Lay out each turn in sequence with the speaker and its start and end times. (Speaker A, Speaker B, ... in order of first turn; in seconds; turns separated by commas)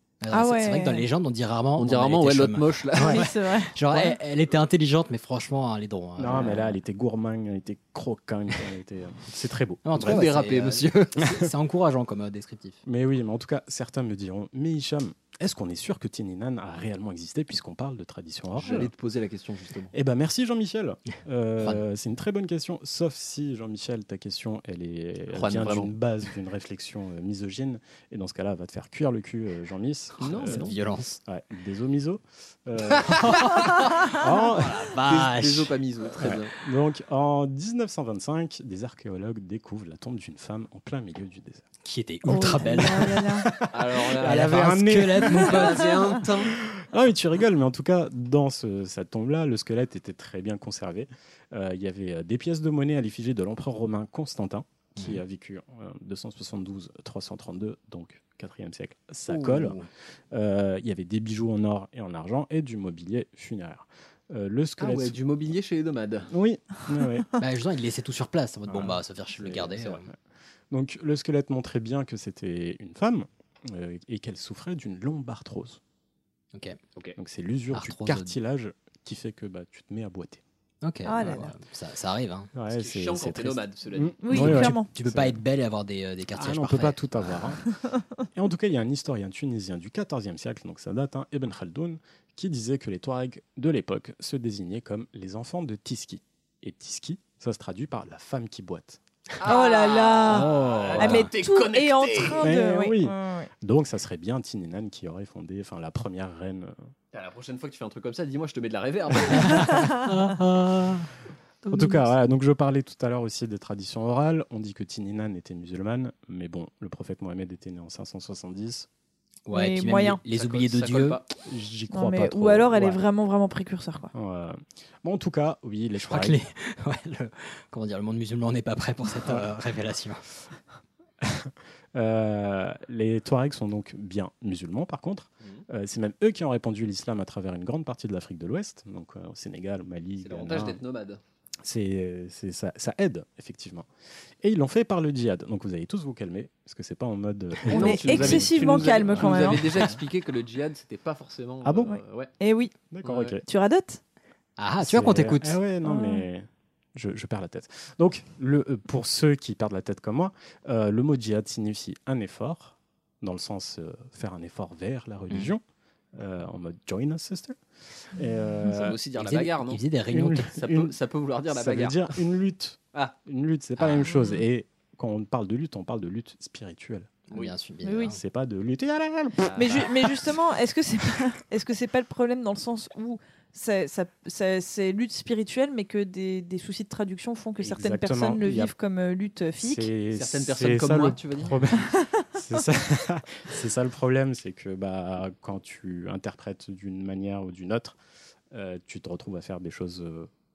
Speaker A: 0.2-6.8, Speaker B: 0.3-1.1, Speaker C: 1.8-3.3, Speaker B: 3.0-3.8, Speaker D: 6.2-10.3, Speaker A: 9.8-12.8, Speaker C: 10.0-11.0, Speaker D: 12.9-18.9, Speaker C: 18.6-19.9, Speaker D: 19.9-34.8, Speaker C: 25.3-25.9, Speaker A: 30.2-31.2, Speaker C: 30.2-30.7, Speaker A: 33.1-35.8, Speaker C: 35.0-36.5, Speaker D: 36.2-41.6, Speaker A: 41.8-43.3, Speaker B: 42.3-43.5, Speaker D: 42.5-42.8, Speaker D: 43.4-59.8, Speaker C: 43.7-46.5, Speaker A: 44.1-46.1, Speaker A: 55.0-55.2, Speaker A: 59.3-59.9, Speaker D: 60.3-65.2, Speaker C: 64.8-66.3, Speaker D: 66.3-67.3, Speaker A: 67.4-70.1, Speaker D: 68.7-70.1, Speaker D: 70.7-75.8, Speaker A: 76.5-76.8, Speaker D: 77.2-80.4, Speaker A: 77.7-78.4, Speaker A: 80.8-82.5, Speaker B: 81.0-81.5, Speaker D: 82.5-85.4, Speaker C: 82.7-84.2, Speaker B: 84.2-84.9, Speaker A: 84.3-87.6, Speaker D: 86.3-87.7, Speaker D: 88.3-99.0, Speaker C: 99.4-102.5, Speaker B: 99.4-103.5, Speaker D: 100.3-101.3, Speaker D: 102.4-106.8, Speaker C: 107.1-109.8, Speaker A: 109.3-111.1, Speaker B: 109.5-110.1, Speaker A: 111.7-112.0, Speaker D: 111.7-118.9, Speaker A: 119.5-121.2, Speaker B: 119.5-120.2, Speaker C: 120.3-121.3, Speaker D: 121.4-123.0, Speaker B: 121.9-124.1, Speaker D: 124.1-126.4, Speaker A: 126.0-130.2, Speaker D: 131.2-140.8, Speaker C: 140.2-141.2, Speaker D: 141.6-143.9, Speaker D: 144.4-150.0, Speaker C: 147.7-152.3, Speaker B: 147.7-149.7, Speaker D: 151.6-151.9, Speaker B: 151.9-152.7, Speaker D: 152.9-153.4, Speaker C: 153.0-153.4, Speaker B: 153.4-154.0, Speaker A: 154.6-155.6, Speaker D: 154.8-165.6, Speaker B: 155.8-156.2, Speaker D: 166.2-167.6, Speaker D: 168.1-169.0, Speaker C: 168.7-169.8, Speaker A: 169.2-170.6, Speaker D: 170.1-170.9, Speaker C: 170.5-172.2, Speaker D: 171.5-177.1, Speaker A: 173.8-174.2, Speaker A: 177.3-178.2, Speaker B: 177.8-178.1, Speaker D: 178.1-179.9, Speaker C: 179.4-179.8, Speaker B: 179.6-189.9, Speaker D: 187.6-188.7, Speaker D: 189.6-198.0, Speaker C: 190.1-191.7, Speaker D: 198.5-200.3